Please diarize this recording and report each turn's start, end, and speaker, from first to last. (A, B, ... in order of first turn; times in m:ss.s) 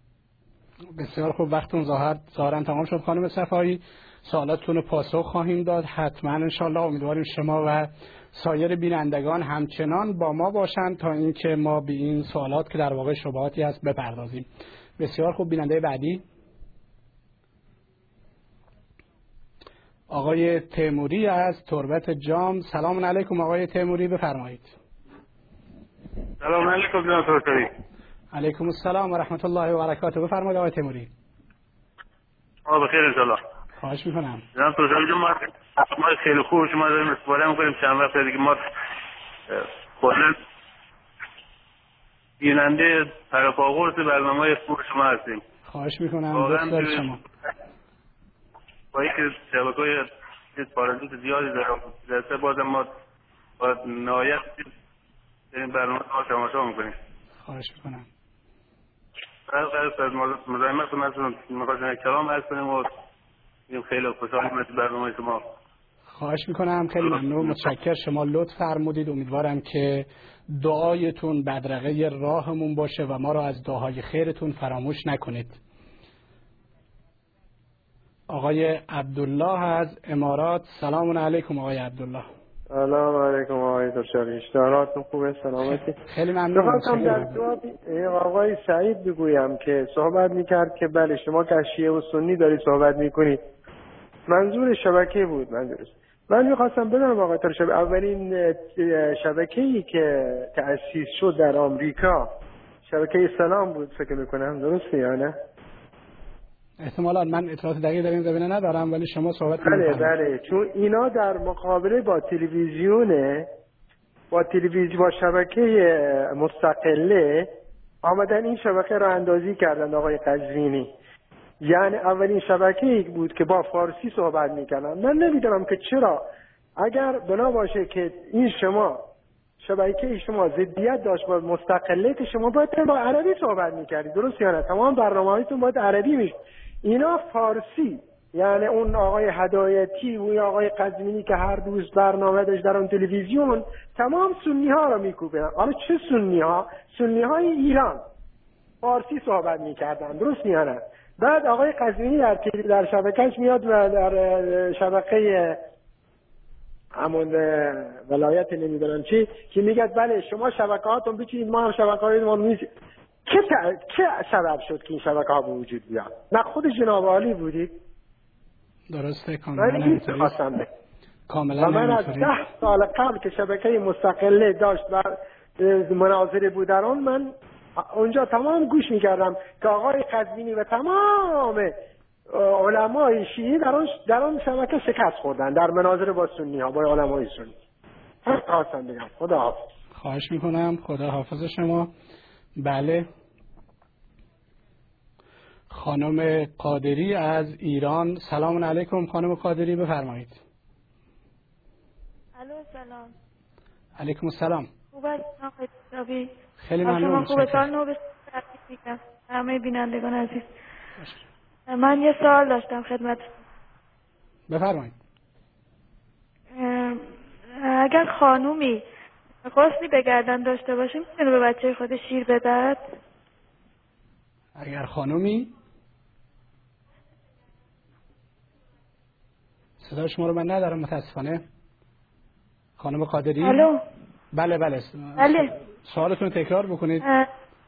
0:01.0-0:14.5 A
0:15.0-0:16.2 A
0:20.1-0:24.7 A
0:26.4-0:27.7 B
0:28.3-0:31.1 A
0:32.6-0:33.4 B
0:33.8-0:34.4 A
0:34.5-0:38.7 B
0:39.5-0:40.4 B
0:42.4-0:45.4 B
0:45.7-0:47.2 A
0:46.3-0:47.2 B
0:48.9-0:52.9 B
0:53.6-0:54.7 B
0:55.5-0:57.0 B
0:57.4-0:58.1 A
0:59.5-1:02.9 B
1:03.7-1:05.4 B
1:06.1-1:15.6 A
1:07.1-1:07.6 B
1:18.3-1:22.2 A
1:22.7-1:26.0 C
1:25.6-1:27.4 A
1:26.5-1:33.4 C
1:34.3-1:42.3 C
1:42.9-1:45.4 C
1:46.8-1:50.1 A
1:49.6-1:53.5 C
1:54.3-1:57.5 C
1:58.0-2:00.9 C
2:01.6-2:06.2 C
2:06.8-2:09.0 C
2:09.6-2:28.0 C
2:28.8-2:35.6 C
2:37.0-2:42.7 C
2:43.2-2:47.7 C
2:48.9-2:50.4 A
2:49.6-2:50.6 C
2:51.3-2:52.4 A
2:51.6-3:01.7 C
3:02.3-3:07.6 C
3:08.2-3:09.6 C
3:09.9-3:11.9 A
3:12.6-3:13.0 A
3:15.7-3:20.4 A
3:22.4-3:23.1 D
3:24.0-3:24.7 A
3:24.9-3:26.3 D
3:26.6-3:27.6 A
3:26.8-3:30.5 D
3:31.7-3:33.3 D
3:34.5-3:34.9 A
3:36.5-3:38.8 D
3:39.4-3:42.8 D
3:44.6-3:45.5 A
3:49.8-3:51.4 A
3:52.8-3:53.7 A
3:53.4-3:53.8 D
3:54.3-3:57.0 A
3:55.2-3:55.5 D
3:57.0-3:57.3 D